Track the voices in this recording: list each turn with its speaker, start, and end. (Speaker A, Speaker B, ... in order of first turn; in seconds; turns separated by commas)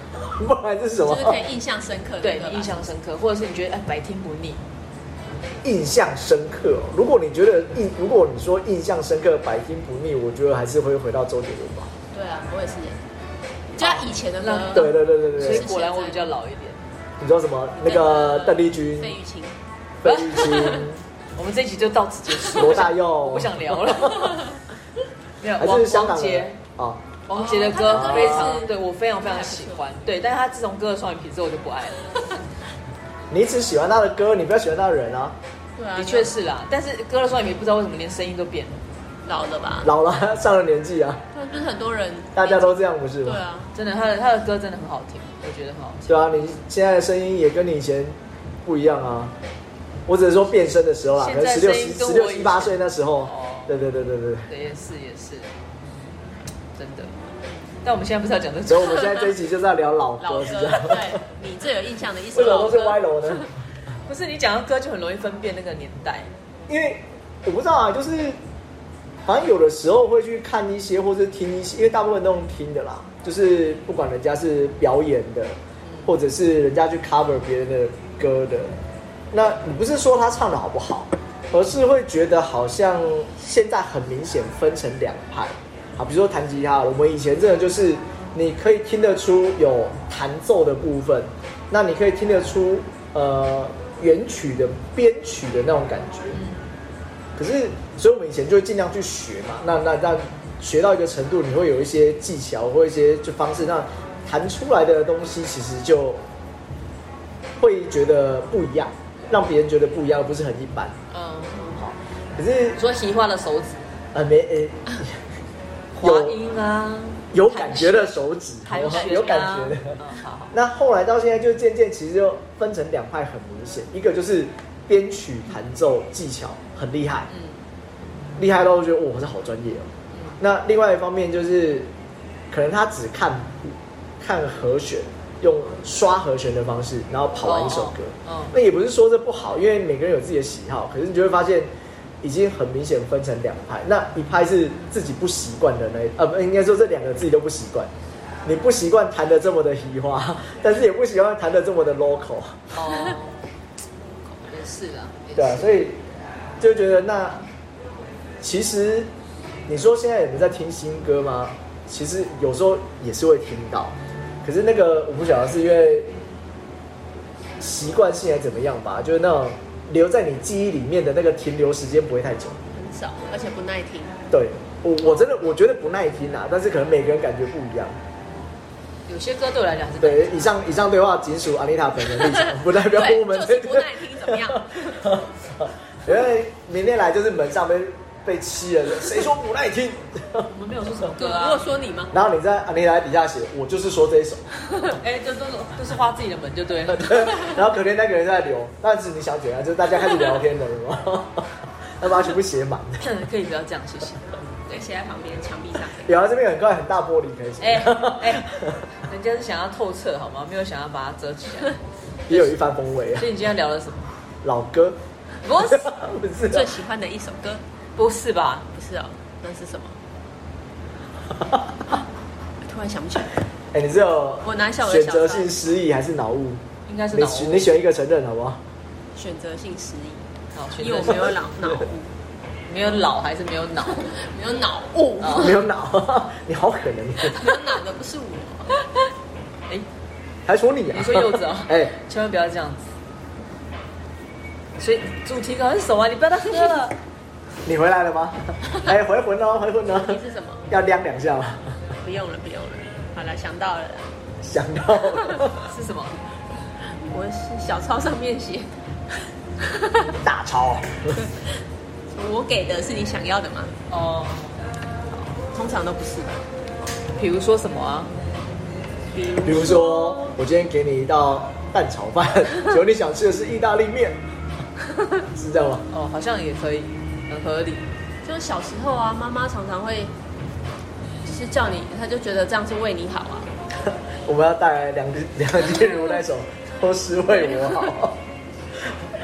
Speaker A: 0.2-1.4, Speaker B: 1.0-2.9, Speaker C: 2.2-4.6, Speaker A: 5.6-11.9, Speaker B: 12.1-13.0, Speaker B: 13.7-16.3, Speaker C: 13.8-16.8, Speaker A: 14.7-15.7, Speaker A: 17.2-19.1, Speaker B: 17.8-19.6, Speaker C: 18.0-18.6, Speaker A: 20.0-21.0, Speaker C: 20.0-20.8, Speaker C: 21.4-24.6, Speaker A: 22.5-24.3, Speaker C: 25.4-26.6, Speaker A: 25.6-27.1, Speaker C: 27.3-32.1, Speaker B: 27.3-29.8, Speaker A: 27.9-28.6, Speaker A: 33.3-35.4, Speaker B: 35.8-36.3, Speaker C: 36.0-38.8, Speaker B: 39.2-39.9, Speaker A: 39.8-41.2, Speaker B: 41.3-43.7, Speaker A: 42.3-43.4, Speaker C: 43.7-46.1, Speaker A: 46.1-49.3, Speaker A: 50.1-54.5, Speaker C: 51.2-53.7, Speaker C: 54.5-55.5, Speaker C: 56.8-57.1, Speaker C: 57.8-59.3, Speaker A: 58.7-61.2, Speaker B: 60.2-63.3, Speaker A: 62.3-63.5, Speaker C: 64.1-66.3, Speaker A: 66.7-68.4, Speaker A: 69.2-78.8, Speaker A: 79.3-96.4, Speaker C: 96.3-96.6, Speaker A: 97.4-106.2, Speaker A: 107.6-111.0, Speaker C: 111.1-111.6, Speaker A: 111.5-112.8, Speaker C: 112.8-113.9, Speaker A: 114.1-115.2, Speaker A: 115.9-116.4, Speaker C: 116.0-120.5, Speaker A: 117.3-120.0, Speaker A: 120.5-127.3, Speaker C: 127.3-127.6, Speaker A: 128.4-131.9, Speaker C: 130.1-130.4, Speaker A: 132.5-141.7, Speaker C: 137.4-138.5, Speaker A: 142.2-147.9, Speaker A: 148.4-152.8, Speaker C: 152.7-153.4, Speaker C: 154.5-155.7, Speaker A: 155.3-156.0, Speaker A: 156.6-157.4, Speaker A: 158.4-159.1, Speaker A: 159.7-166.1, Speaker A: 167.6-172.6, Speaker B: 172.7-174.2, Speaker A: 174.3-178.0, Speaker C: 175.0-175.3, Speaker C: 179.1-180.5, Speaker A: 180.0-190.5, Speaker B: 182.8-185.0, Speaker C: 190.5-191.7, Speaker B: 191.1-192.1, Speaker A: 192.1-194.4, Speaker C: 194.9-197.6, Speaker A: 196.9-203.1, Speaker C: 203.0-204.3, Speaker B: 204.7-206.1, Speaker A: 206.0-208.8, Speaker C: 207.6-208.5, Speaker C: 209.0-212.6, Speaker A: 212.3-213.3, Speaker C: 213.1-214.1, Speaker A: 214.4-215.0, Speaker C: 215.4-215.8, Speaker A: 215.6-216.7, Speaker B: 216.5-217.6, Speaker C: 217.9-218.7, Speaker B: 218.7-220.0, Speaker B: 222.6-223.3, Speaker A: 223.7-228.6, Speaker B: 224.4-225.5, Speaker C: 226.8-227.7, Speaker B: 229.2-230.2, Speaker C: 230.5-231.4, Speaker B: 230.8-232.1, Speaker C: 232.7-234.2, Speaker B: 234.1-235.6, Speaker C: 235.2-235.6, Speaker A: 235.3-237.6, Speaker B: 237.2-238.7, Speaker A: 240.4-241.9, Speaker C: 240.9-242.9, Speaker C: 244.8-246.9, Speaker A: 247.6-251.7, Speaker B: 249.9-250.6, Speaker B: 252.0-254.1, Speaker A: 254.4-255.7, Speaker C: 255.6-256.2, Speaker B: 257.0-258.7, Speaker B: 259.6-260.1, Speaker A: 260.2-261.2, Speaker B: 261.2-261.5, Speaker B: 262.1-263.7, Speaker C: 263.9-264.6, Speaker B: 265.1-266.4, Speaker C: 267.1-268.1, Speaker B: 269.1-270.3, Speaker A: 269.4-274.2, Speaker A: 275.3-275.9, Speaker C: 275.9-277.9, Speaker B: 278.2-280.1, Speaker B: 281.2-283.5, Speaker A: 284.2-288.2